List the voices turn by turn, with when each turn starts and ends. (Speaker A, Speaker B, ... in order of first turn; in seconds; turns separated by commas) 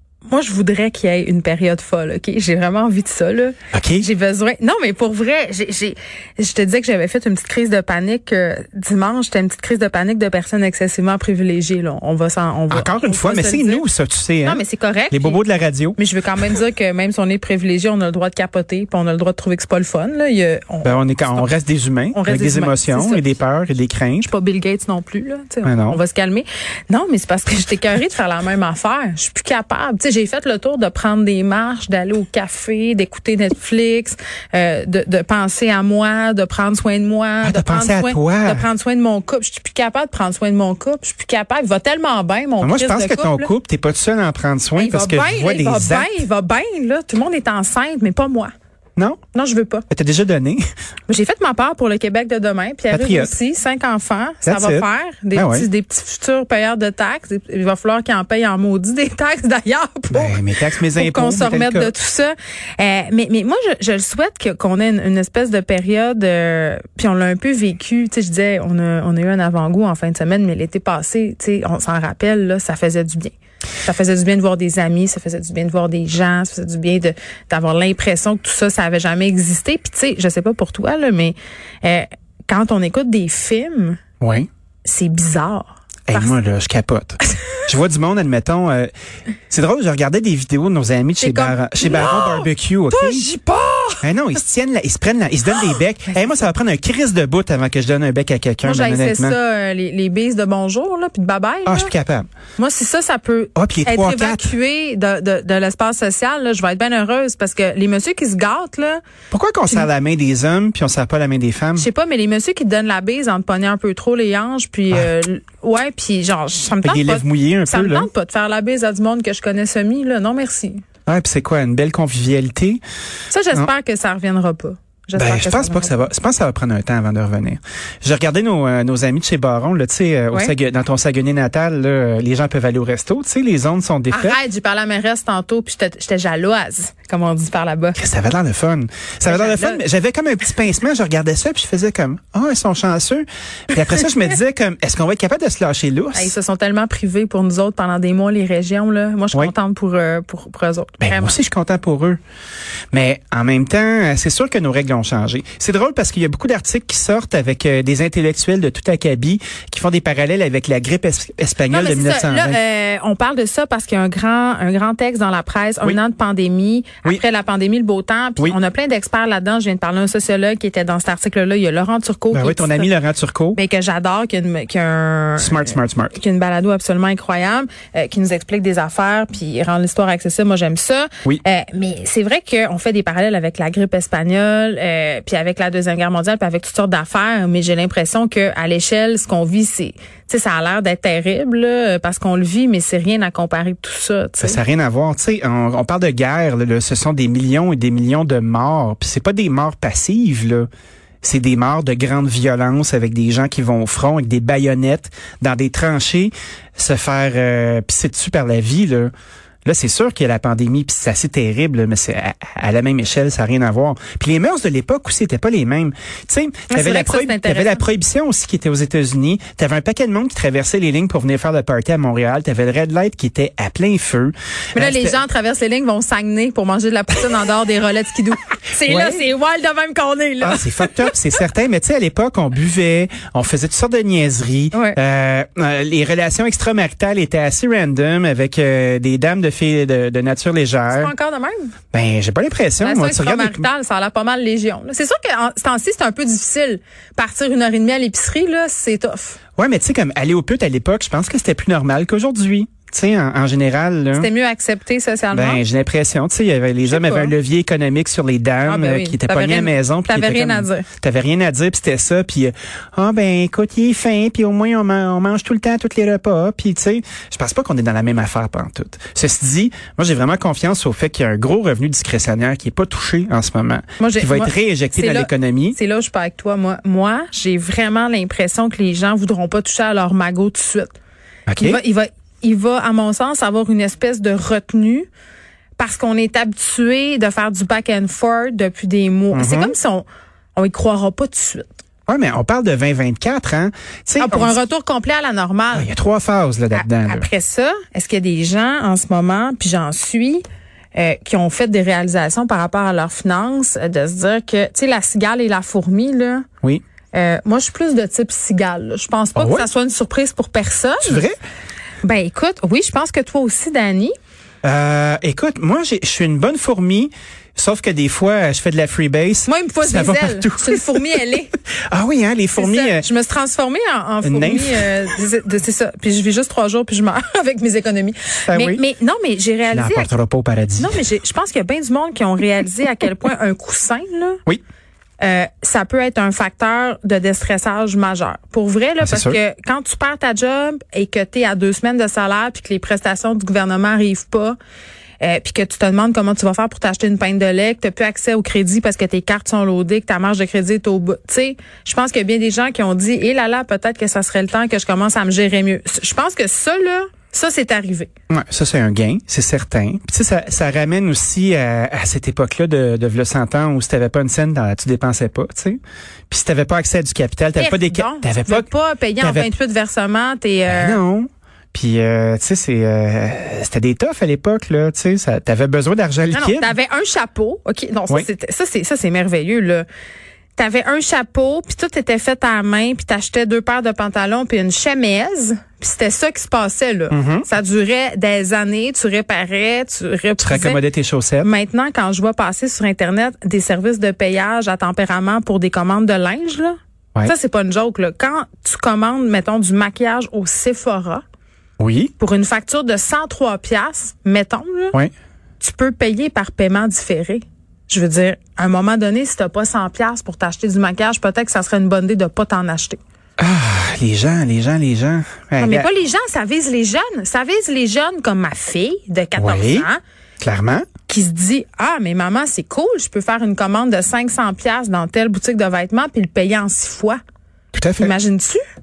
Speaker A: 0.3-13.8, Speaker B: 3.7-4.1, Speaker B: 12.7-16.0, Speaker A: 14.4-15.4, Speaker A: 16.0-21.6, Speaker B: 20.8-24.3, Speaker A: 22.1-23.3, Speaker A: 24.2-43.5, Speaker B: 25.6-26.0, Speaker B: 37.4-38.7, Speaker B: 42.6-46.2, Speaker A: 44.8-48.5, Speaker A: 49.3-49.9, Speaker B: 49.9-50.6, Speaker A: 51.1-60.4, Speaker B: 52.9-53.3, Speaker B: 54.5-55.7, Speaker B: 60.1-61.9, Speaker A: 61.0-84.0, Speaker B: 84.2-84.5, Speaker A: 84.8-86.4, Speaker B: 86.1-88.9, Speaker B: 89.5-93.3, Speaker A: 91.2-94.0, Speaker B: 94.0-99.4, Speaker A: 98.6-101.9, Speaker B: 101.7-102.3, Speaker A: 102.6-109.0, Speaker B: 103.6-104.5, Speaker B: 109.3-111.9, Speaker A: 111.8-120.8, Speaker B: 116.8-118.1, Speaker B: 121.1-122.8, Speaker A: 123.3-126.0, Speaker B: 125.2-134.4, Speaker A: 134.1-138.0, Speaker B: 137.9-146.3, Speaker A: 139.3-139.8, Speaker A: 146.1-151.4, Speaker B: 151.0-152.2, Speaker B: 152.9-162.6, Speaker A: 161.7-172.9, Speaker B: 172.3-173.6, Speaker A: 173.5-194.6, Speaker B: 175.4-176.2, Speaker B: 194.4-200.7, Speaker B: 201.2-209.1, Speaker B: 209.7-225.2, Speaker A: 216.7-217.8, Speaker A: 224.8-230.9, Speaker B: 228.8-229.2, Speaker B: 230.4-241.1, Speaker A: 234.7-235.0, Speaker A: 240.9-241.7, Speaker B: 241.9-243.7, Speaker A: 242.8-249.4, Speaker B: 249.6-254.3, Speaker A: 254.2-255.6, Speaker B: 255.3-275.8, Speaker A: 256.9-257.3, Speaker A: 258.6-260.9, Speaker A: 274.0-281.0, Speaker B: 281.5-281.8, Speaker A: 281.6-285.1, Speaker A: 285.8-291.8, Speaker B: 289.3-289.8, Speaker B: 292.1-294.6, Speaker A: 294.2-295.9, Speaker B: 295.7-297.3, Speaker A: 296.7-300.4, Speaker A: 300.9-306.5, Speaker A: 307.1-311.3, Speaker B: 309.4-309.7, Speaker B: 311.0-311.4, Speaker A: 312.0-314.1, Speaker B: 314.6-321.1, Speaker A: 319.5-321.5, Speaker B: 321.9-323.1, Speaker A: 322.6-330.1, Speaker B: 324.2-324.9, Speaker B: 328.5-328.8, Speaker B: 329.7-331.0, Speaker A: 330.8-334.4, Speaker A: 335.2-344.6, Speaker B: 339.0-339.4, Speaker A: 345.2-358.1, Speaker B: 358.3-369.5, Speaker A: 367.6-371.0, Speaker B: 370.7-376.7, Speaker A: 376.3-379.9, Speaker A: 380.6-390.8, Speaker B: 387.1-387.5, Speaker B: 390.4-391.5, Speaker A: 391.4-401.2, Speaker B: 401.8-402.1, Speaker A: 402.2-405.0, Speaker A: 405.6-413.0, Speaker B: 413.4-415.9, Speaker A: 415.6-420.0, Speaker B: 419.4-419.9, Speaker B: 420.4-420.9, Speaker A: 421.1-427.2, Speaker B: 427.7-428.1, Speaker A: 428.0-428.6